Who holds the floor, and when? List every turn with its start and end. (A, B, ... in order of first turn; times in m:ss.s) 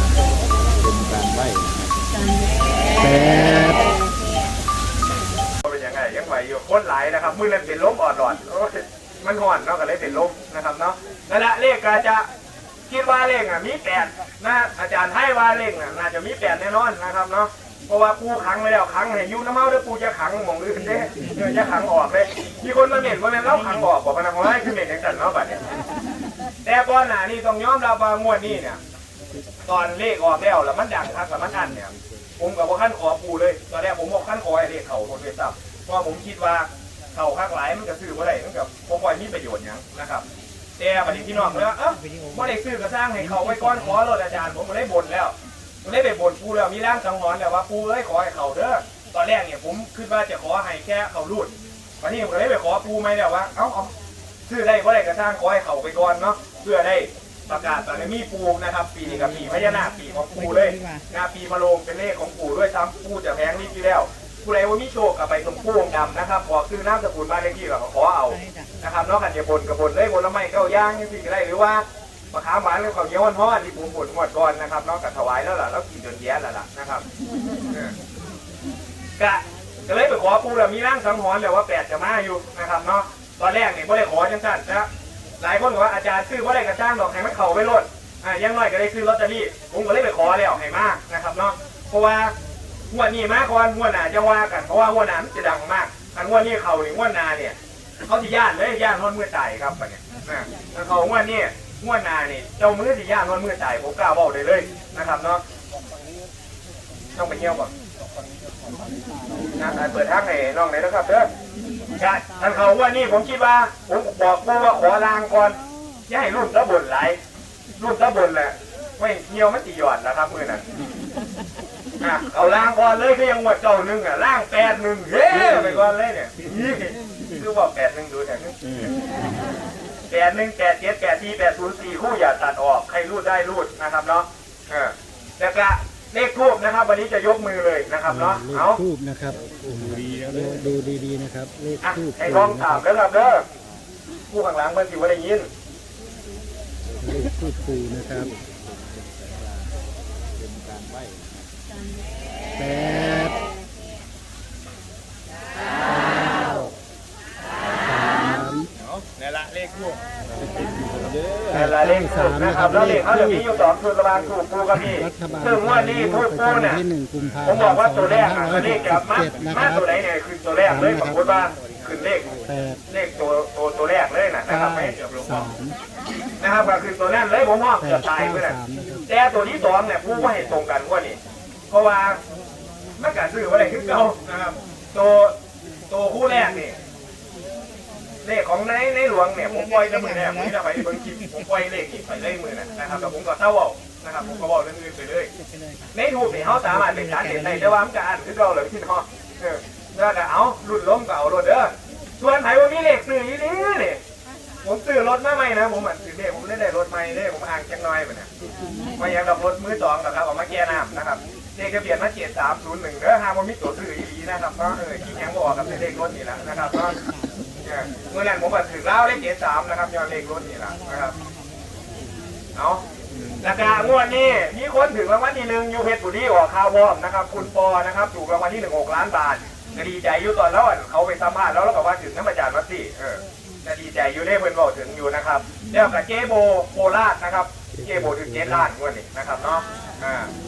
0:03.0-0:03.8 A
0:05.6-0:12.3 B
0:12.9-0:25.6 B
0:26.6-0:28.8 B
0:29.6-0:40.2 B
0:40.8-0:53.9 B
0:54.5-1:17.0 B
1:19.2-1:24.9 B
1:25.4-1:32.3 B
1:32.9-1:45.4 B
1:47.2-1:47.7 B
1:49.6-1:51.3 B
1:52.0-1:57.2 B
1:57.8-2:00.6 B
2:02.0-2:08.9 B
2:10.1-2:18.8 B
2:18.1-2:22.8 A
2:21.8-2:23.4 B
2:24.3-2:25.5 B
2:27.0-2:28.3 A
2:32.6-2:33.4 A
2:36.2-2:36.7 A
2:37.9-2:38.7 A
2:39.0-2:40.0 B
2:41.5-2:46.8 B
2:41.5-2:43.4 A
2:44.9-2:49.8 A
2:47.4-2:52.3 B
2:50.7-2:51.2 A
2:52.5-2:52.8 A
2:52.9-2:55.5 B
2:54.5-2:55.8 A
2:56.4-3:01.2 B
2:57.8-2:59.0 A
3:01.7-3:02.2 B
3:03.0-3:05.4 B
3:05.9-3:06.8 B
3:08.2-3:15.3 B
3:15.9-3:24.0 B
3:24.6-3:28.3 B
3:29.0-3:37.0 B
3:37.6-3:41.1 B
3:42.5-3:42.8 B
3:43.4-4:00.3 B
3:57.9-3:58.2 A